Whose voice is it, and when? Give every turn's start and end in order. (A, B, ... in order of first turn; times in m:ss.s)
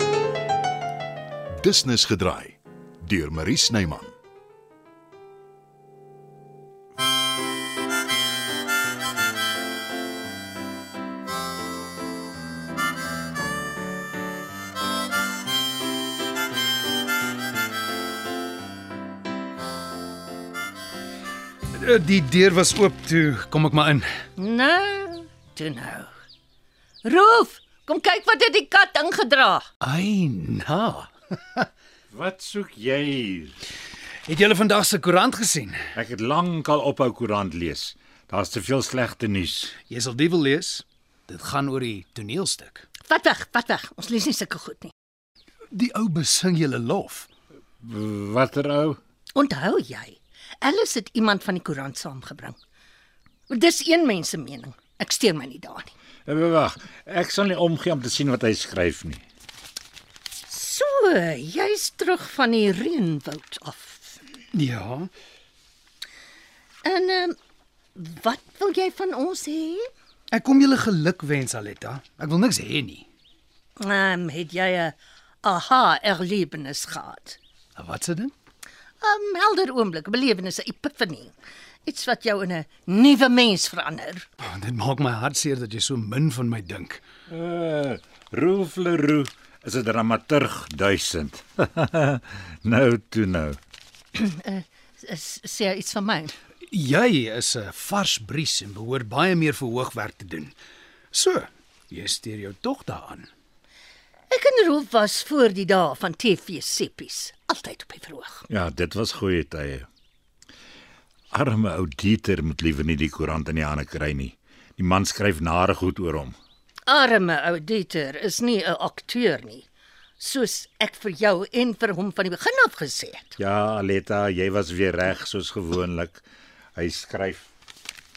0:01.6-0:02.5 A
0:03.1-0:04.1 A
0:21.8-0:24.0 B
0:24.4-0:26.1 C
0:27.0-0:29.6 C
0:29.9-0:31.0 B
0:32.1-0:33.6 D
0:34.3-0:35.7 B
0:35.9-0:39.8 D
0:39.9-0:42.9 B
0:43.1-0:44.9 C
0:45.8-0:47.3 B
0:47.8-0:49.0 D
0:49.3-0:52.6 C
0:53.5-0:55.9 C
0:56.3-0:59.2 D
1:00.5-1:04.2 C
1:04.6-1:05.1 B
1:06.8-1:07.3 C
1:07.9-1:09.9 C
1:10.3-1:13.0 B
1:13.8-1:17.4 C
1:17.8-1:18.3 B
1:19.0-1:21.3 C
1:21.8-1:24.2 C
1:24.6-1:27.0 B
1:27.3-1:33.6 D
1:34.1-1:36.3 C
1:36.7-1:40.5 B
1:41.1-1:43.3 B
1:44.3-1:48.4 C
1:48.5-1:49.9 D
1:51.3-1:56.3 D
1:56.9-1:59.6 C
2:00.2-2:03.3 C
2:03.4-2:06.2 D
2:06.8-2:07.5 D